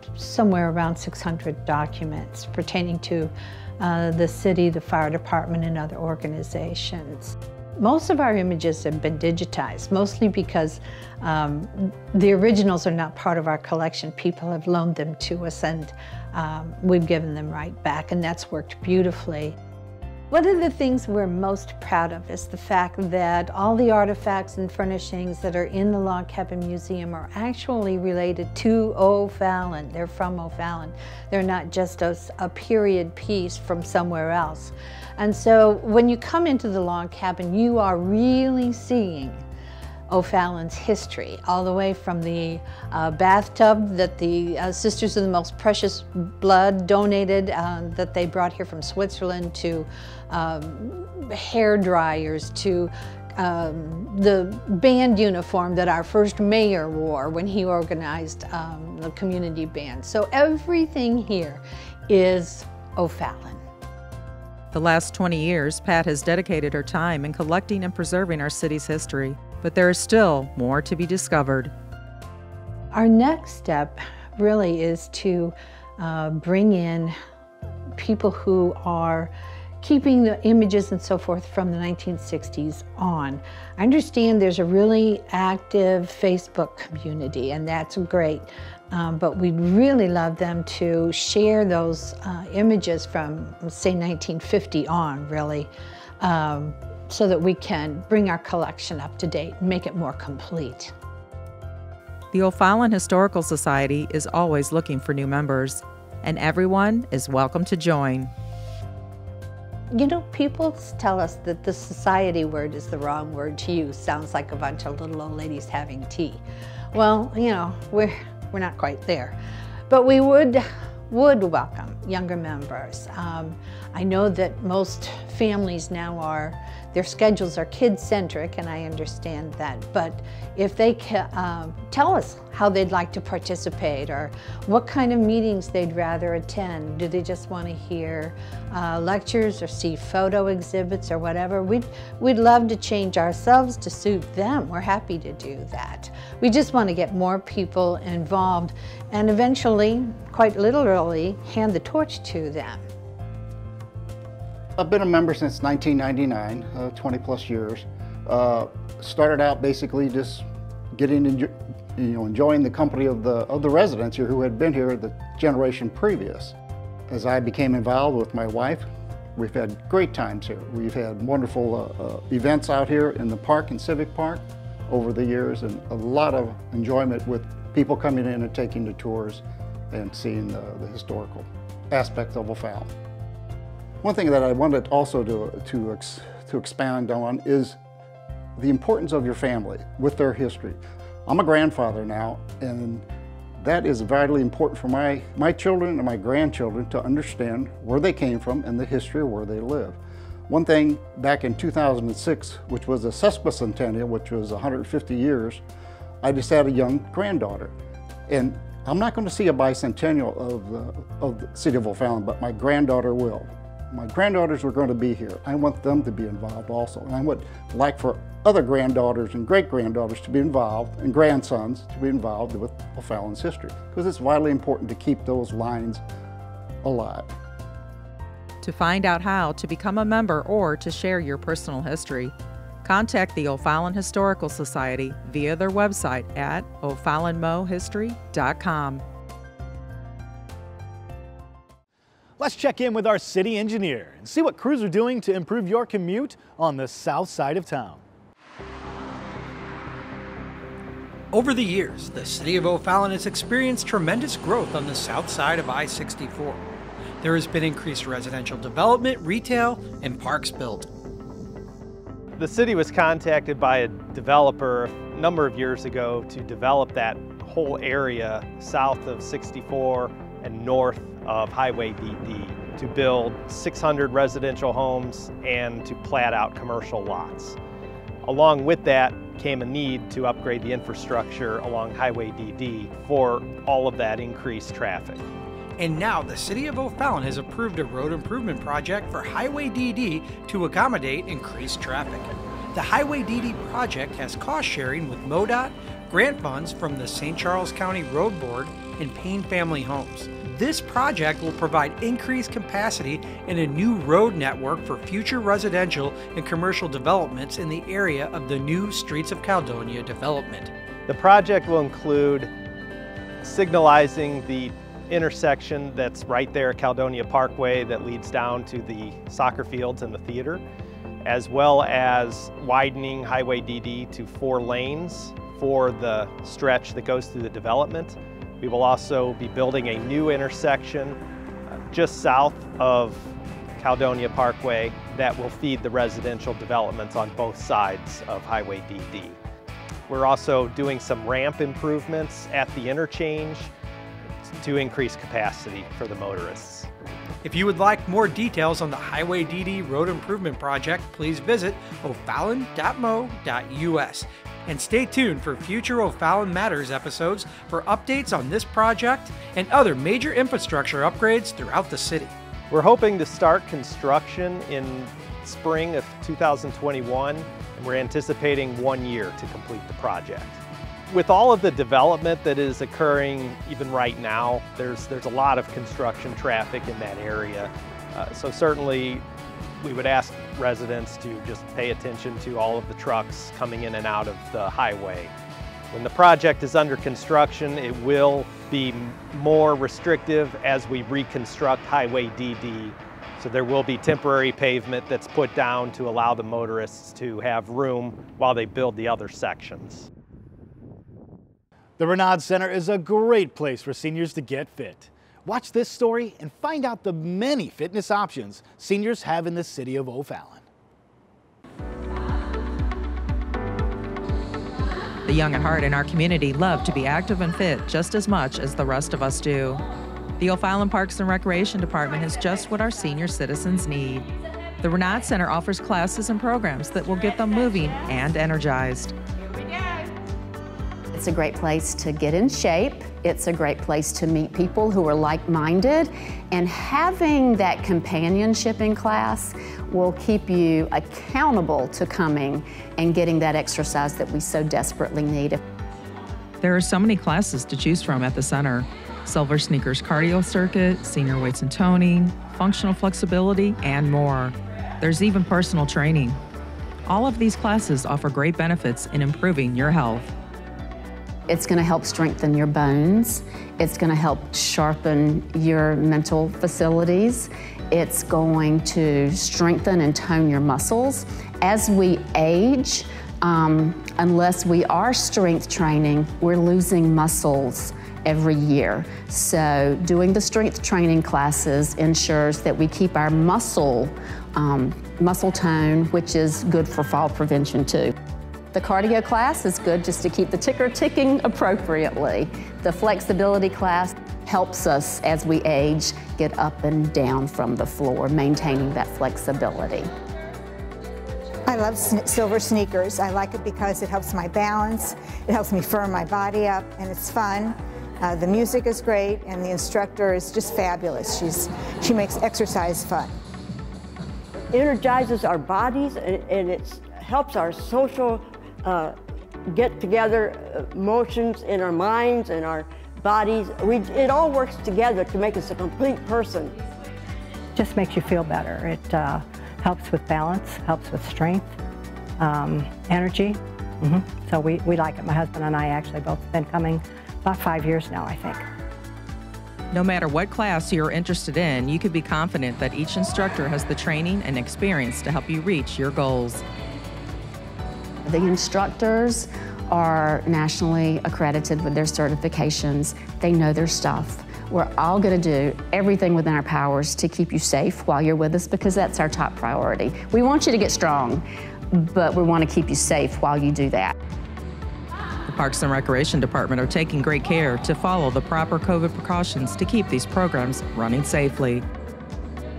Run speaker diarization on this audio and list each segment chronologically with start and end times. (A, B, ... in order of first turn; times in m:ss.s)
0:00.2-0:19.6 A
0:20.3-0:39.4 A
0:40.1-1:03.6 A
1:04.7-1:11.7 B
1:12.9-1:17.2 A
1:18.0-1:40.9 A
1:42.3-1:48.3 B
1:49.9-1:56.4 A
1:56.9-1:59.4 A
1:59.9-2:32.8 A
2:34.8-2:46.6 C
2:47.1-3:02.9 C
3:04.0-3:07.8 C
3:08.6-3:13.1 C
3:13.6-3:25.6 C
3:26.2-3:27.7 C
3:28.3-3:46.0 C
3:46.8-3:47.3 C
3:48.6-3:59.0 B
4:02.4-4:08.0 D
4:11.3-4:16.6 E
4:17.2-4:20.9 E
4:22.4-4:37.6 F
4:38.2-4:45.3 F
4:45.8-5:10.7 E
5:11.1-5:12.5 F
5:13.4-5:20.6 F
5:21.2-5:39.4 F
5:40.1-5:43.7 F
5:44.5-5:46.9 F
5:47.4-6:02.4 E
6:02.7-6:19.2 F
6:19.8-6:25.3 F
6:25.9-6:40.1 F
6:42.0-6:50.6 D
6:55.3-6:59.8 B
7:00.4-7:04.3 B
7:04.8-7:09.1 B
7:11.1-7:25.6 G
7:26.6-7:36.4 B
7:37.1-7:40.3 B
7:41.5-8:08.1 G
8:08.7-8:20.1 G
8:21.7-8:33.3 H
8:34.7-8:39.2 I
8:39.7-8:46.8 I
8:47.8-8:51.8 J
8:52.4-8:58.6 J
8:59.9-9:06.6 B
9:08.3-9:24.2 G
9:25.5-9:31.8 B